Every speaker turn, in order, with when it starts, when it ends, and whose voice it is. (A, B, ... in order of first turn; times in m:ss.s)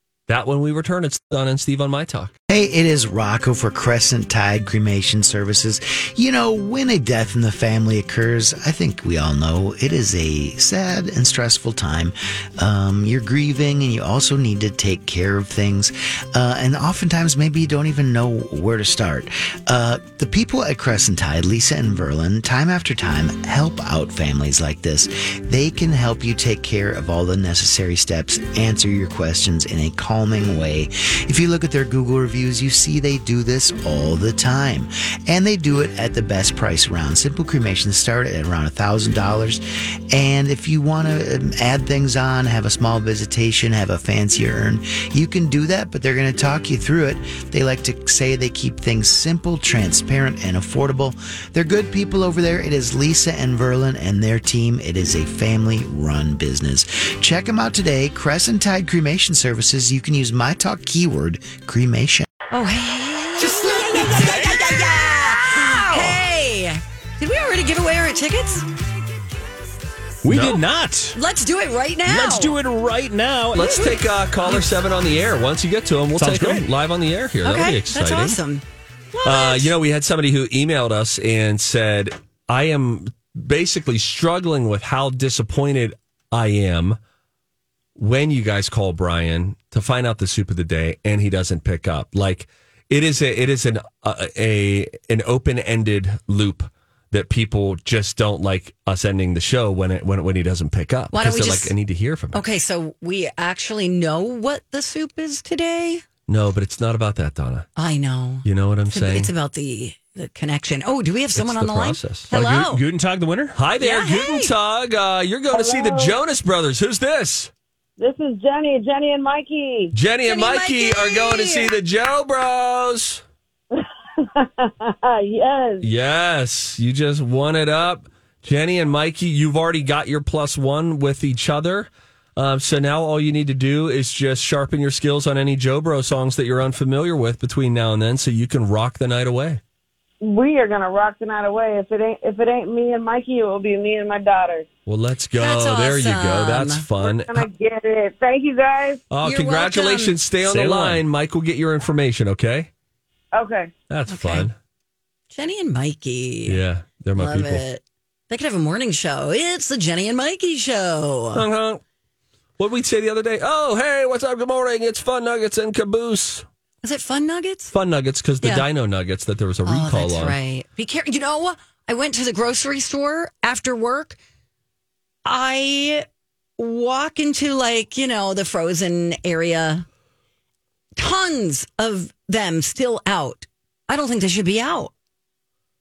0:00.3-0:02.3 A
0:02.5-1:02.3 B
1:02.5-1:08.7 C
1:04.1-1:05.3 B
1:10.2-1:11.2 D
1:10.3-1:10.6 A
1:11.1-1:12.6 C
1:12.1-1:13.9 D
1:13.5-1:18.4 A
1:16.2-1:16.7 D
1:17.4-1:19.7 C
1:19.2-1:27.0 A
1:28.0-1:42.4 A
1:41.1-1:41.7 C
1:42.3-1:46.0 C
1:46.3-1:47.7 A
1:47.8-1:52.8 C
1:48.4-1:49.3 A
1:51.4-1:52.3 A
1:52.3-1:53.6 D
1:53.6-1:57.5 A
1:53.8-1:54.5 C
1:55.5-1:56.2 E
1:58.0-1:59.9 E
1:59.9-2:03.2 A
2:00.3-2:01.7 C
2:03.8-2:05.8 E
2:05.8-2:19.6 A
2:20.2-2:24.7 E
2:24.9-2:27.5 A
2:25.4-2:26.8 C
2:27.0-2:29.0 E
2:29.1-2:32.7 A
2:29.2-2:30.2 C
2:30.4-2:31.0 D
2:33.3-2:33.7 E
2:33.9-2:34.5 A
2:34.1-2:34.5 C
2:35.3-2:36.6 C
2:36.5-2:37.6 A
2:37.2-2:41.4 C
2:41.3-2:41.8 A
2:42.6-2:46.4 A
2:46.8-2:47.7 C
2:47.7-2:50.4 A
2:49.7-2:54.2 C
2:55.2-2:56.1 C
2:56.6-2:59.9 C
3:01.0-3:04.9 C